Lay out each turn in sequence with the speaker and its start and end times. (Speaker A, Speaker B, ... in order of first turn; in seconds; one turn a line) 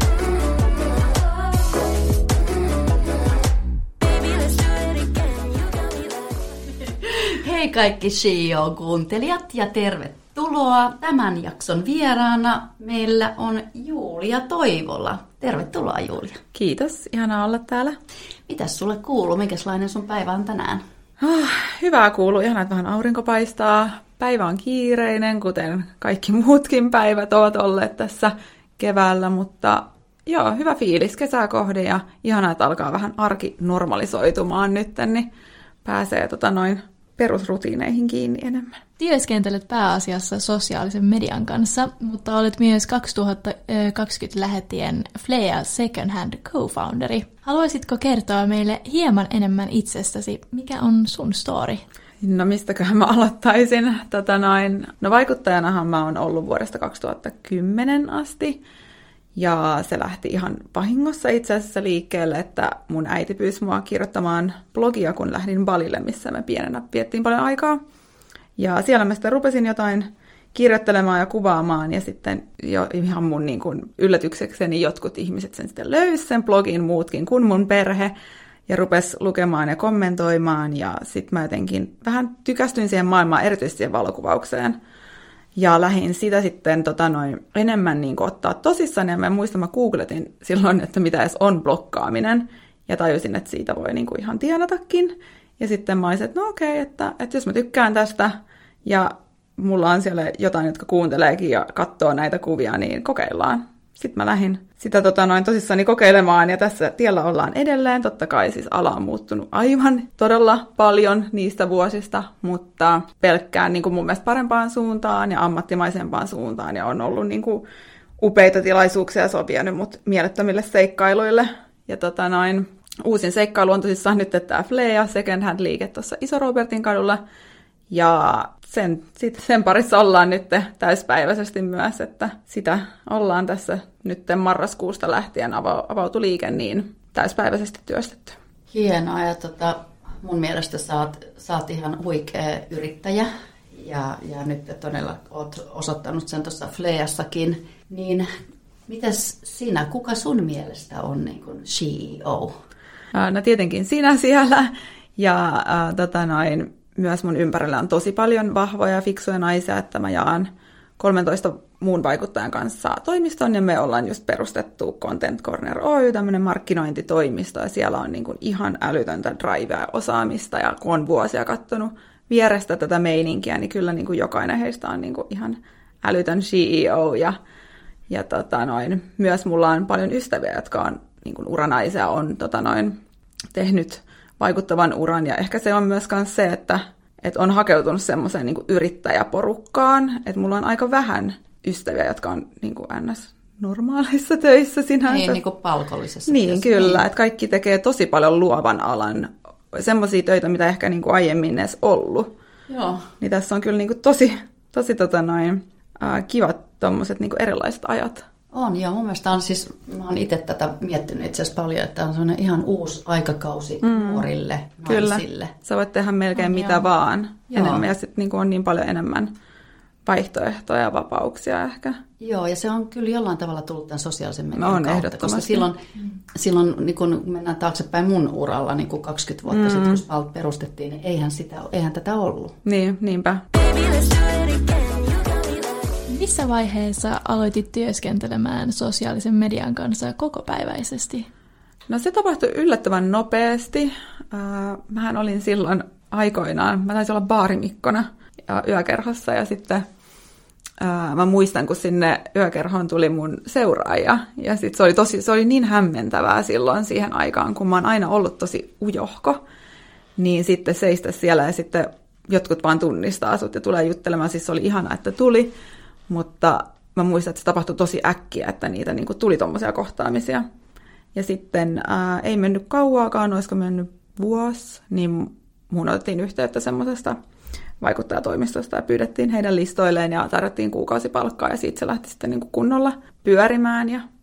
Speaker A: 7.0-16.4
Speaker B: 16.5-17.9
Speaker A: 18.5-20.8
Speaker B: 21.2-35.3
Speaker B: 35.8-38.8
Speaker C: 39.0-51.8
Speaker B: 52.2-58.6
Speaker B: 59.4-67.8
Speaker B: 68.6-78.1
Speaker B: 78.7-84.8
Speaker B: 85.5-98.3
Speaker B: 98.8-117.6
Speaker B: 118.2-127.2
Speaker B: 127.9-138.4
Speaker A: 138.7-148.3
Speaker A: 148.9-152.5
Speaker B: 153.1-160.5
Speaker B: 161.0-177.4
Speaker B: 178.1-182.9
Speaker B: 183.5-195.4
Speaker A: 195.1-197.0
Speaker B: 196.3-202.3
Speaker A: 202.7-203.1
Speaker B: 203.2-208.2
Speaker A: 208.5-215.5
Speaker B: 213.8-214.3
Speaker B: 214.8-219.3
Speaker C: 216.3-216.9
Speaker A: 217.5-217.8
Speaker B: 220.1-222.0
Speaker A: 222.2-225.8
Speaker B: 224.6-225.7
Speaker A: 226.3-232.6
Speaker B: 229.5-230.0
Speaker B: 232.6-233.4
Speaker C: 236.1-241.3
Speaker B: 241.9-249.8
Speaker B: 250.8-259.4
Speaker B: 260.2-265.5
Speaker B: 266.1-270.4
Speaker B: 271.1-277.2
Speaker B: 277.8-284.0